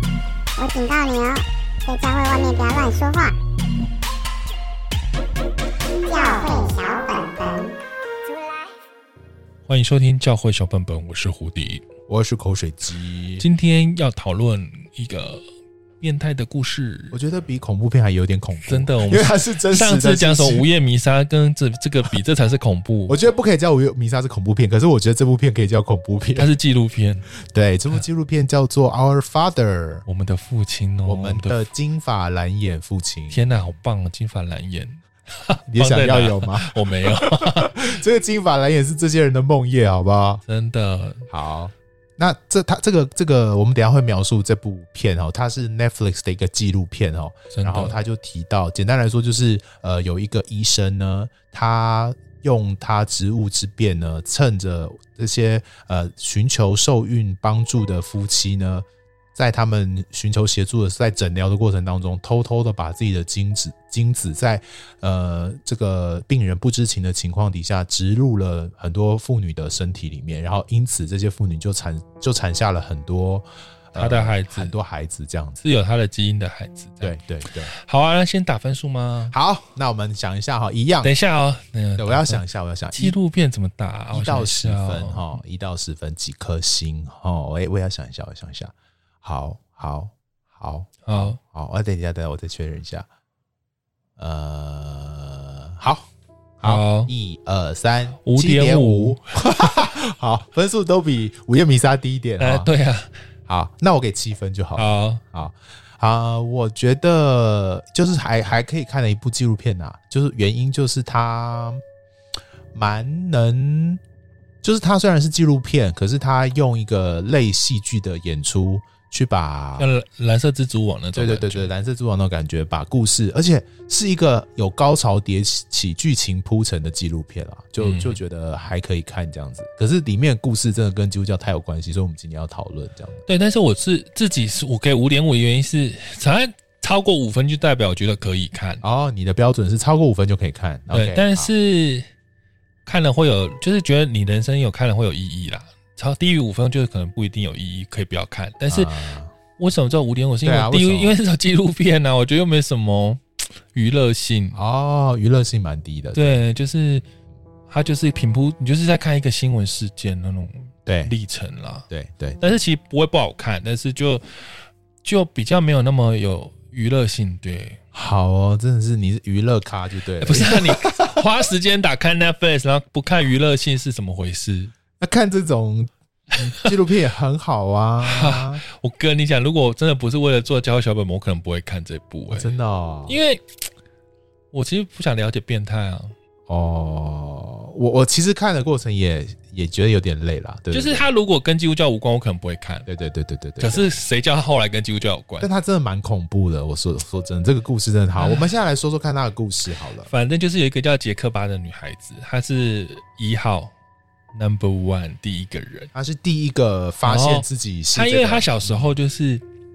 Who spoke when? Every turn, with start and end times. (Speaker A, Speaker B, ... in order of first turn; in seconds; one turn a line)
Speaker A: 0.6-3.4
Speaker A: 6.1-7.7
Speaker B: 9.7-11.9
Speaker C: 12.1-13.4
Speaker B: 13.4-15.4
Speaker B: 16.0-17.2
Speaker C: 17.1-20.6
Speaker B: 18.6-23.2
Speaker C: 23.1-26.5
Speaker B: 26.4-27.3
Speaker C: 27.4-30.1
Speaker B: 30.1-31.6
Speaker C: 31.1-33.5
Speaker B: 33.3-37.9
Speaker C: 35.7-40.4
Speaker B: 40.5-41.3
Speaker C: 41.3-75.6
Speaker B: 47.5-48.0
Speaker B: 74.0-74.7
Speaker B: 75.6-79.3
Speaker C: 77.0-77.7
Speaker C: 79.3-81.1
Speaker B: 81.0-82.4
Speaker C: 82.0-83.2
Speaker B: 83.0-85.4
Speaker C: 84.1-93.1
Speaker B: 91.0-91.4
Speaker C: 94.2-102.7
Speaker B: 96.6-97.1
Speaker B: 98.2-99.8
Speaker B: 102.4-103.1
Speaker C: 103.5-111.8
Speaker B: 104.8-105.2
Speaker C: 112.7-114.0
Speaker C: 114.6-119.9
Speaker B: 119.8-121.7
Speaker C: 121.1-133.2
Speaker B: 127.8-128.2
Speaker B: 133.3-138.8
Speaker C: 138.8-141.5
Speaker B: 140.9-142.1
Speaker B: 142.9-148.9
Speaker C: 148.7-149.3
Speaker B: 149.6-154.6
Speaker C: 150.4-151.2
Speaker C: 154.6-156.4
Speaker B: 156.1-157.1
Speaker B: 157.7-161.9
Speaker C: 160.9-161.1
Speaker C: 161.9-162.4
Speaker B: 162.4-164.5
Speaker B: 165.0-167.8
Speaker C: 167.9-171.2
Speaker B: 170.2-174.7
Speaker C: 175.0-178.6
Speaker B: 176.4-176.7
Speaker B: 178.0-182.6
Speaker C: 182.3-183.2
Speaker B: 183.1-183.6
Speaker B: 184.5-186.2
Speaker C: 186.5-191.1
Speaker B: 190.7-192.9
Speaker C: 192.9-193.9
Speaker B: 193.6-195.5
Speaker C: 195.4-200.1
Speaker B: 198.2-198.5
Speaker B: 200.1-203.7
Speaker B: 204.3-205.9
Speaker C: 205.9-208.9
Speaker B: 207.0-209.4